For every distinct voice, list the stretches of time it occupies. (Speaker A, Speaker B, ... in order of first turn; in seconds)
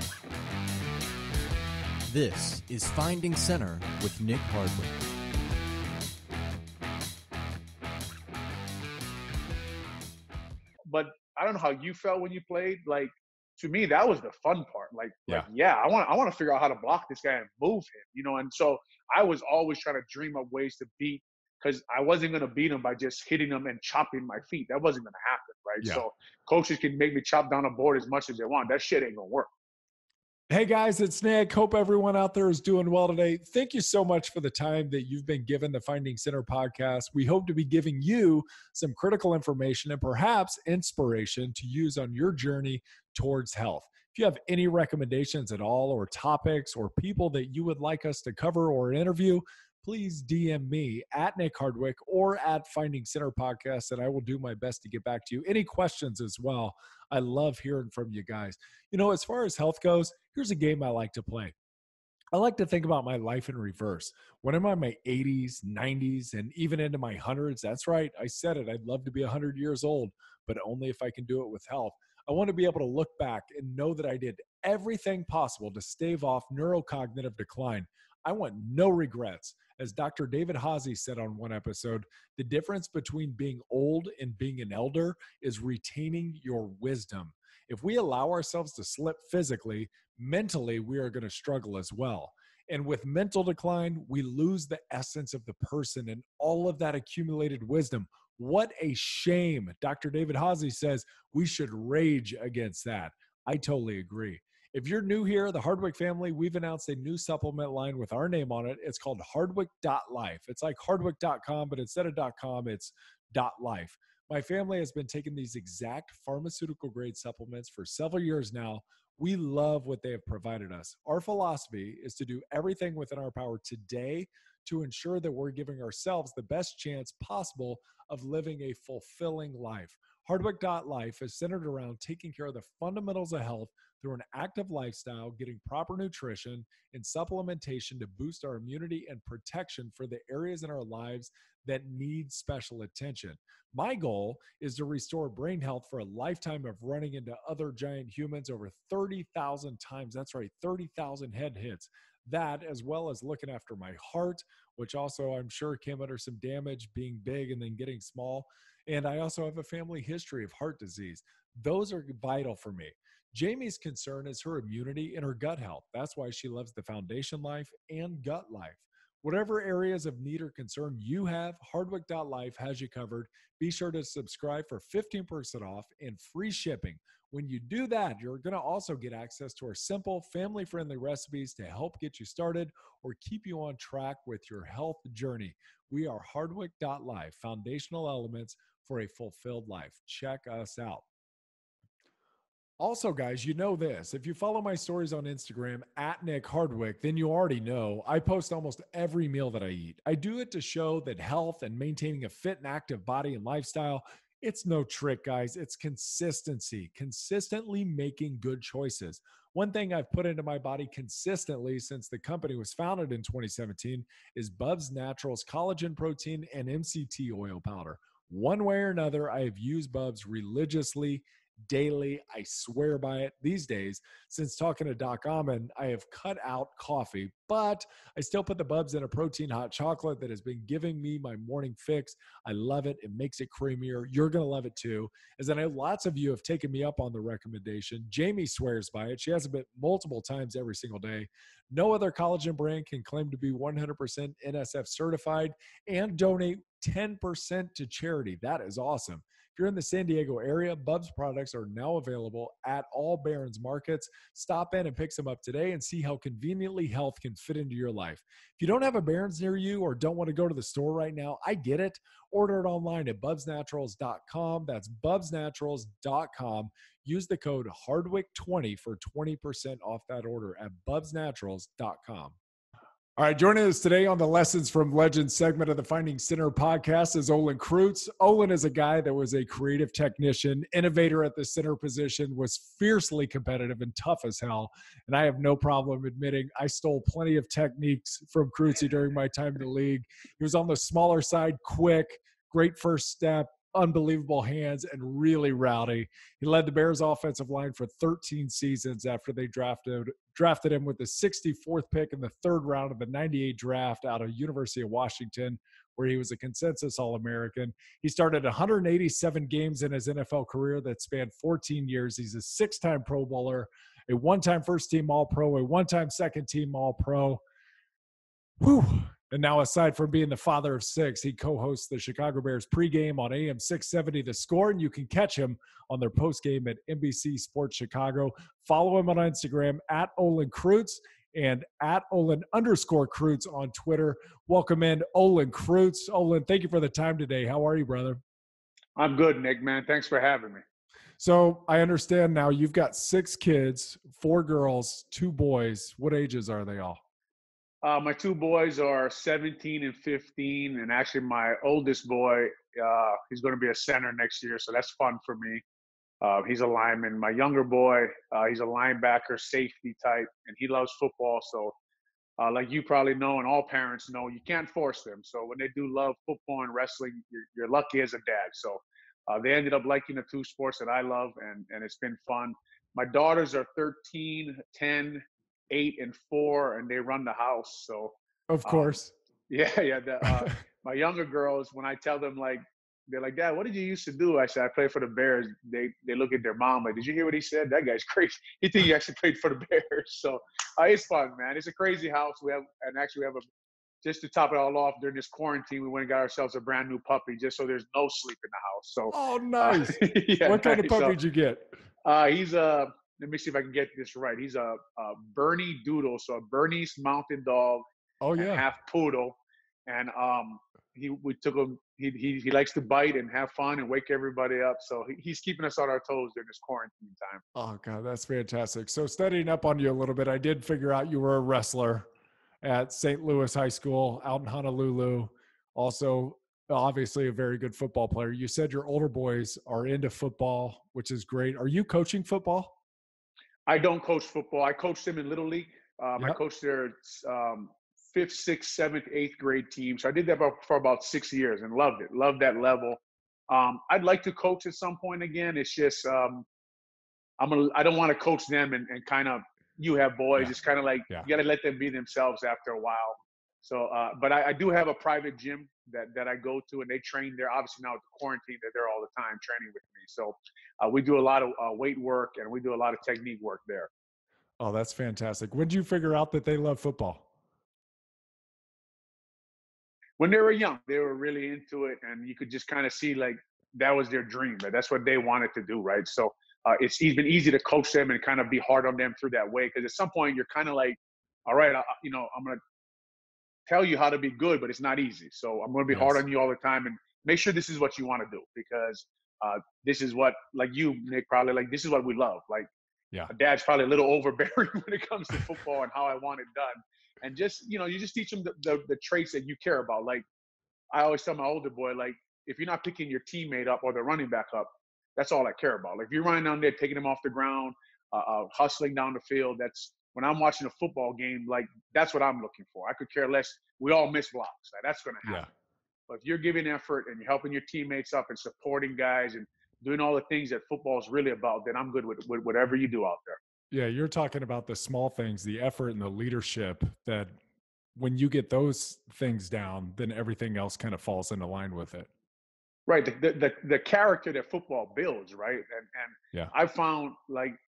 Speaker A: 2.1-5.0
Speaker B: 10.9-29.5, 338.9-340.6, 347.8-355.6, 356.2-361.7, 362.4-378.9, 379.5-393.4, 394.0-401.2, 402.0-407.8, 408.4-409.4, 409.9-417.4, 433.7-446.5, 447.4-463.9, 470.2-482.6, 483.7-492.7, 493.3-500.2, 500.9-515.5, 516.1-523.4, 532.9-537.5
Speaker C: 30.5-61.5, 62.3-191.0, 192.8-272.4, 273.2-317.4, 318.6-338.2, 341.2-347.0, 378.5-379.1, 380.2-380.5, 399.1-401.8, 408.2-408.6, 417.5-422.1, 422.6-432.7, 464.6-467.2, 485.9-486.2, 523.7-527.4, 528.0-532.1